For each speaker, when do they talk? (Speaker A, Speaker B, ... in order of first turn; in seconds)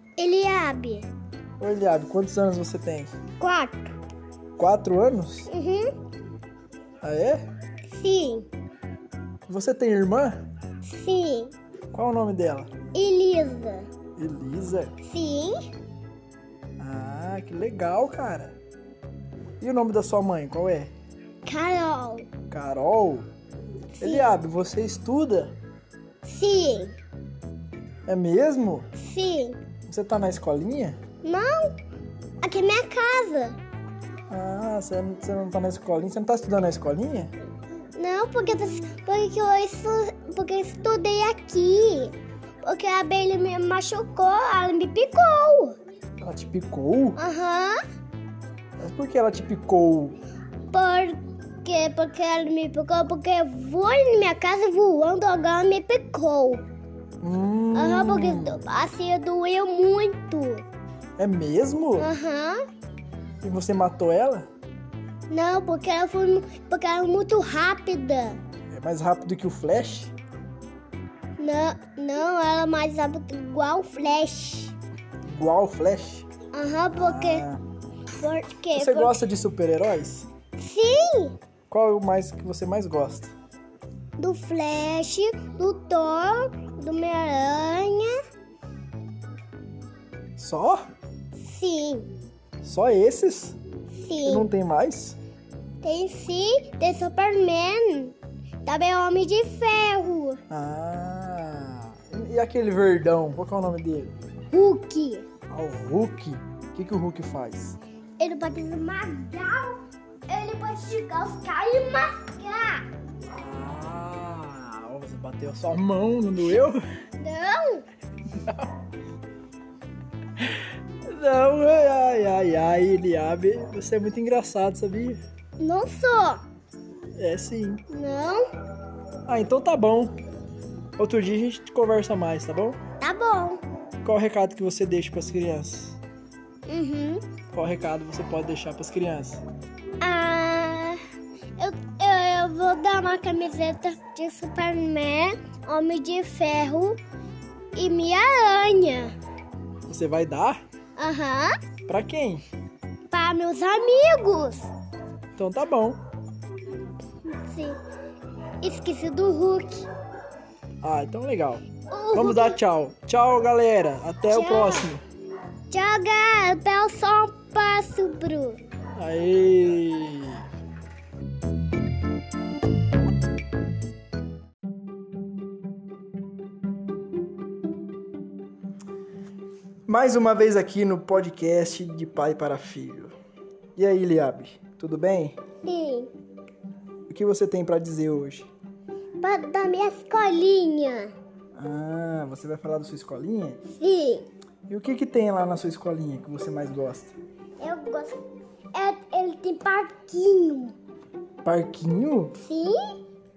Speaker A: 0.2-1.1, 3.4-3.9, 5.5-5.9, 7.9-8.5, 10.8-11.5, 12.9-13.9, 15.0-15.7, 21.4-22.3, 23.9-24.3, 26.2-26.9, 28.9-29.6, 31.2-31.8, 32.4-33.6, 38.0-45.8, 47.2-47.8, 50.7-56.6, 57.7-60.6, 62.0-62.6, 65.3-68.4, 71.4-74.7, 76.5-77.5, 78.2-79.2, 80.6-81.4, 84.2-88.2, 91.4-92.2, 93.9-94.5, 95.8-100.4, 104.5-105.2, 108.2-112.9, 117.2-117.9, 125.6-126.4, 127.9-128.4, 133.0-133.6, 136.7-137.2, 140.0-141.0, 141.6-147.0, 147.8-149.1, 151.0-151.6, 153.1-154.7, 157.2-157.8, 158.6-159.9, 161.9-162.6, 164.2-164.9, 165.7-168.6, 185.6-186.1, 189.2-191.1, 193.6-194.3, 197.6-198.2, 198.7-200.8, 202.4-203.0
Speaker B: 1.6-3.1, 4.6-5.5, 7.0-7.4, 9.5-10.5, 11.9-12.7, 14.2-14.9, 16.8-18.6, 19.6-20.9, 22.5-23.3, 24.0-25.6, 28.1-28.9, 29.9-31.0, 34.3-37.3, 46.2-47.2, 48.8-50.2, 57.2-58.6, 61.2-62.1, 63.4-64.5, 68.7-70.1, 75.2-76.3, 76.9-77.6, 78.7-80.3, 81.7-83.3, 90.4-90.9, 92.6-93.6, 94.2-95.2, 100.5-104.2, 105.5-107.8, 113.3-116.8, 118.3-118.7, 120.4-125.2, 127.1-127.8, 129.2-130.2, 131.0-132.8, 134.0-136.0, 137.5-139.4, 149.9-150.6, 151.8-152.4, 155.3-156.0, 160.8-165.0, 168.9-170.5, 179.9-183.1, 183.8-185.4, 187.1-188.5, 191.5-193.6, 194.7-197.2, 201.4-202.4